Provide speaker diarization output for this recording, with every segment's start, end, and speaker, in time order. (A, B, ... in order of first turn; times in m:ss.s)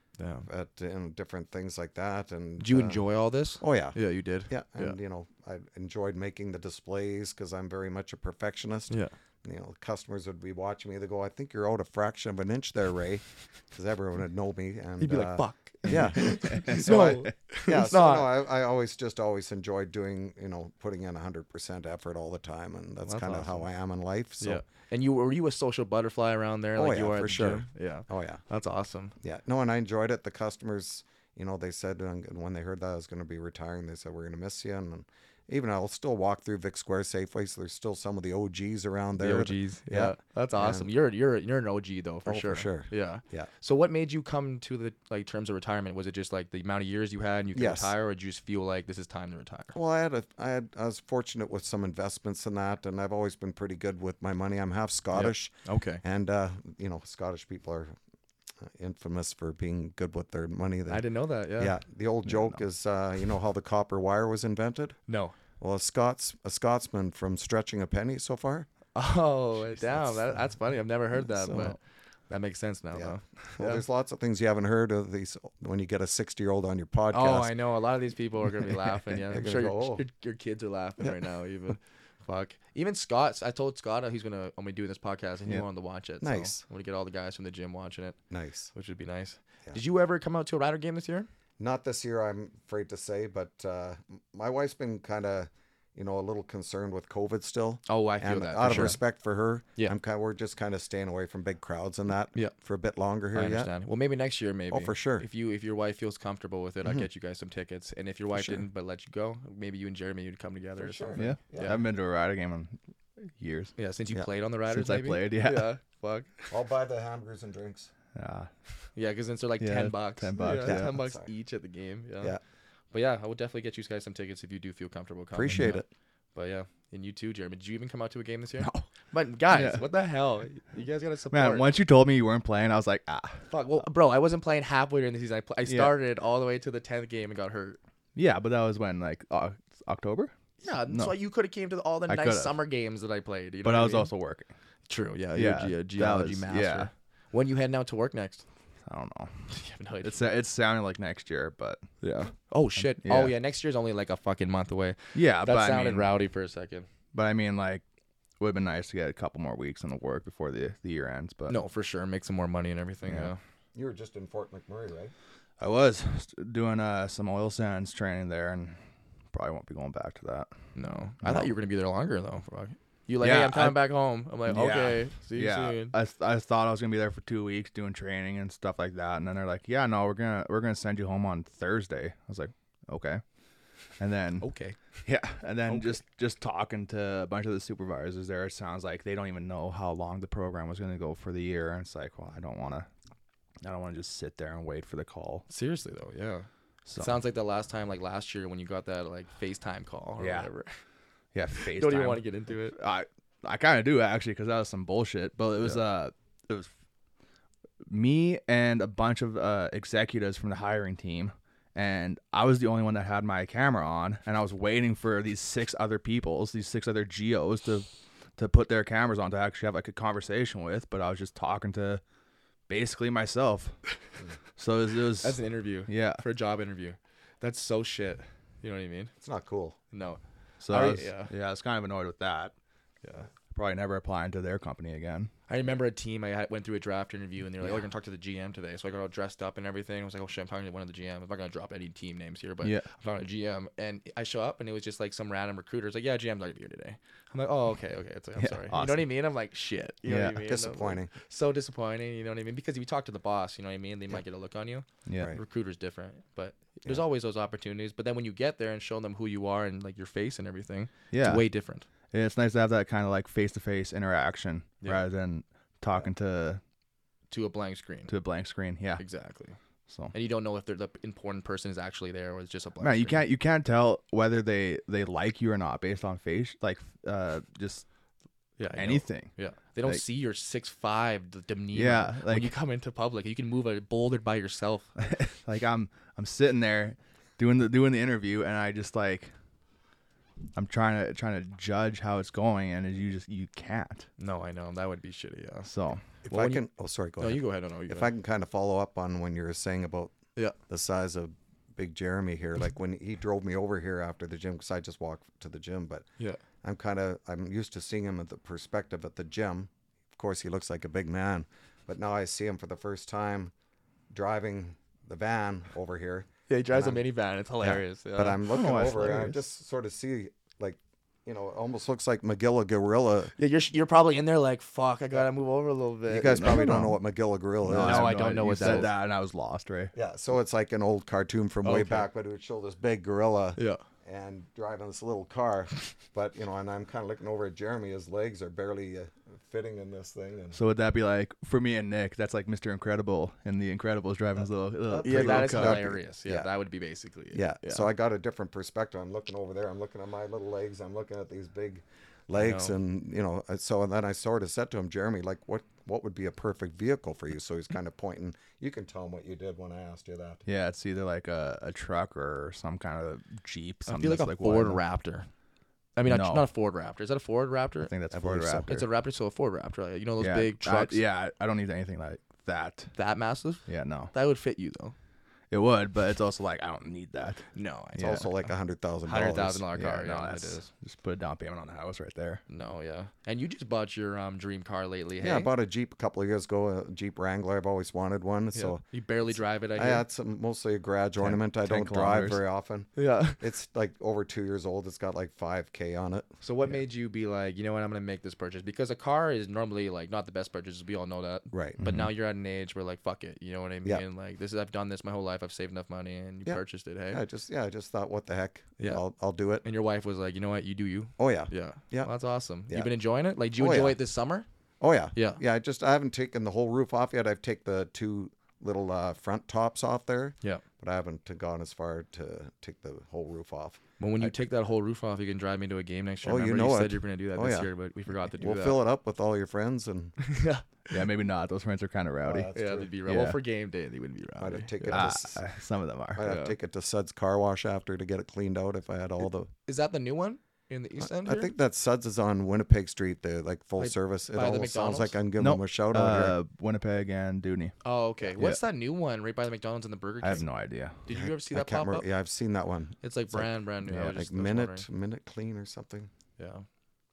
0:00.2-0:00.5 A
0:00.5-0:03.0 B
0:02.6-0:05.0 A
0:03.6-0:24.6 B
0:15.0-0:18.4 A
0:15.8-0:17.0 C
0:23.0-0:23.6 A
0:24.4-0:29.1 A
0:26.8-0:28.4 B
0:29.2-0:40.9 B
0:39.2-0:49.8 A
0:42.2-0:43.5 B
0:47.5-0:47.9 B
0:49.7-0:57.9 B
0:55.1-0:56.0 A
0:58.6-1:01.0 B
1:00.9-1:01.7 A
1:01.6-1:05.0 B
1:02.2-1:02.5 C
1:05.1-1:05.3 A
1:05.6-1:08.7 B
1:08.9-1:11.8 A
1:09.7-1:10.3 B
1:11.3-1:11.7 B
1:12.3-1:13.8 A
1:12.9-1:17.5 B
1:17.1-1:28.2 A
1:19.3-1:20.0 B
1:26.2-1:26.6 B
1:28.3-1:28.7 B
1:28.7-1:31.3 A
1:31.6-1:43.7 B
1:37.9-1:39.0 A
1:43.3-1:51.8 A
1:44.7-1:45.2 B
1:48.3-1:48.6 B
1:50.8-1:51.8 B
1:51.2-1:53.7 C
1:53.8-1:56.5 A
1:54.7-1:55.7 C
1:56.5-1:57.9 B
1:58.1-1:58.5 C
1:58.9-2:02.4 A
1:59.6-2:00.9 C
2:00.5-2:01.3 B
2:02.9-2:05.8 A
2:05.3-2:05.9 B
2:05.5-2:05.8 C
2:06.3-2:11.7 A
2:08.6-2:08.9 C
2:09.5-2:09.8 C
2:11.3-2:13.5 C
2:13.5-2:17.8 A
2:15.6-2:15.9 C
2:18.1-2:21.2 C
2:20.6-2:24.1 A
2:22.1-2:22.6 C
2:23.6-2:24.5 C
2:24.9-2:28.4 A
2:25.3-2:26.9 C
2:28.8-2:29.5 C
2:29.5-2:30.2 A
2:30.0-2:31.9 C
2:32.0-2:36.9 A
2:32.9-2:33.4 C
2:35.1-2:36.1 C
2:37.1-2:37.8 C
2:38.4-2:41.5 C
2:41.5-2:43.4 A
2:43.7-2:45.1 B
2:45.6-2:48.8 C
2:49.3-2:50.5 C
2:50.7-2:55.9 A
2:53.2-2:53.8 C
2:54.5-3:03.2 C
3:04.0-3:04.5 C
3:04.4-3:05.0 A
3:05.0-3:12.9 C
3:05.7-3:06.0 A
3:13.6-3:15.4 C
3:15.5-3:16.5 A
3:16.8-3:17.2 C
3:17.0-3:20.7 A
3:20.2-3:20.5 C
3:21.3-3:26.7 C
3:21.5-3:22.8 A
3:27.8-3:42.0 C
3:42.7-3:43.8 C
3:44.6-3:46.2 C
3:45.2-3:49.1 A
3:49.2-3:49.8 B
3:49.9-3:51.3 A
3:50.6-3:52.5 C
3:53.0-3:53.3 A
3:53.5-3:55.3 C
3:55.5-4:21.8 A
4:08.4-4:09.1 C
4:10.1-4:10.4 C
4:10.4-4:11.1 B
4:15.1-4:15.3 C
4:15.2-4:15.4 B
4:21.1-4:21.4 C
4:22.1-4:26.6 C
4:27.3-4:28.1 A
4:28.1-4:29.0 C
4:29.0-4:29.6 A
4:29.9-4:30.1 C
4:30.1-4:33.2 A
4:32.8-4:37.8 C
4:38.6-4:45.2 A
4:38.7-4:39.3 C
4:41.7-4:42.5 C
4:45.0-4:49.3 C
4:50.5-4:54.1 C
4:54.2-4:55.7 A
4:55.7-4:56.0 C
4:56.2-4:56.6 A
4:56.3-5:00.1 B
4:57.2-4:58.1 A
5:00.7-5:06.1 B
5:06.6-5:13.5 B
5:14.1-5:17.0 B
5:16.5-5:18.4 A
5:17.6-5:23.3 B
5:18.5-5:19.4 C
5:23.4-5:26.8 A
5:26.1-5:28.9 B
5:26.3-5:27.0 C
5:27.6-5:29.9 C
5:27.7-5:28.9 A
5:29.9-5:40.6 B
5:31.6-5:32.1 A
5:33.6-5:33.8 A
5:40.5-5:45.9 C
5:44.9-5:46.5 B
5:45.0-5:47.9 A
5:47.3-6:00.4 B
5:52.4-5:52.7 A
6:00.4-6:04.8 C
6:03.8-6:05.3 A
6:06.0-6:07.9 A
6:06.0-6:06.5 C
6:07.9-6:08.8 C
6:08.1-6:08.7 B
6:08.6-6:11.0 A
6:10.2-6:12.9 C
6:12.9-6:14.9 A
6:13.7-6:14.1 C
6:15.5-6:17.4 C
6:17.5-6:18.3 A
6:18.0-6:18.2 C
6:18.0-6:19.6 B
6:19.0-6:20.7 A
6:19.7-6:22.4 C
6:22.5-6:25.5 A
6:25.2-6:36.4 B
6:28.5-6:30.0 A
6:31.2-6:32.4 C
6:33.0-6:33.4 A
6:36.4-6:47.2 A
6:41.5-6:41.8 B
6:41.8-6:42.1 C
6:46.4-6:49.6 B
6:49.6-6:54.4 A
6:51.2-6:52.1 B
6:52.7-6:52.9 B
6:53.6-6:54.0 B
6:54.8-7:03.8 B
6:55.1-6:55.4 A
7:04.0-7:08.8 A
7:06.2-7:07.7 B
7:08.3-7:10.2 B
7:10.2-7:11.0 A
7:10.9-7:12.5 C
7:12.2-7:13.0 B
7:12.5-7:15.1 A
7:13.0-7:13.4 C
7:14.4-7:15.4 B
7:14.8-7:16.3 C
7:16.1-7:19.5 B
7:16.2-7:16.5 A
7:19.6-7:21.5 A
7:21.0-7:26.4 B
7:23.8-7:25.2 A
7:25.4-7:27.8 C
7:27.8-7:30.5 A
7:30.2-7:31.0 C
7:31.0-7:32.0 A
7:31.1-7:36.1 B
7:33.0-7:34.8 A
7:33.9-7:34.1 C
7:36.4-7:36.6 A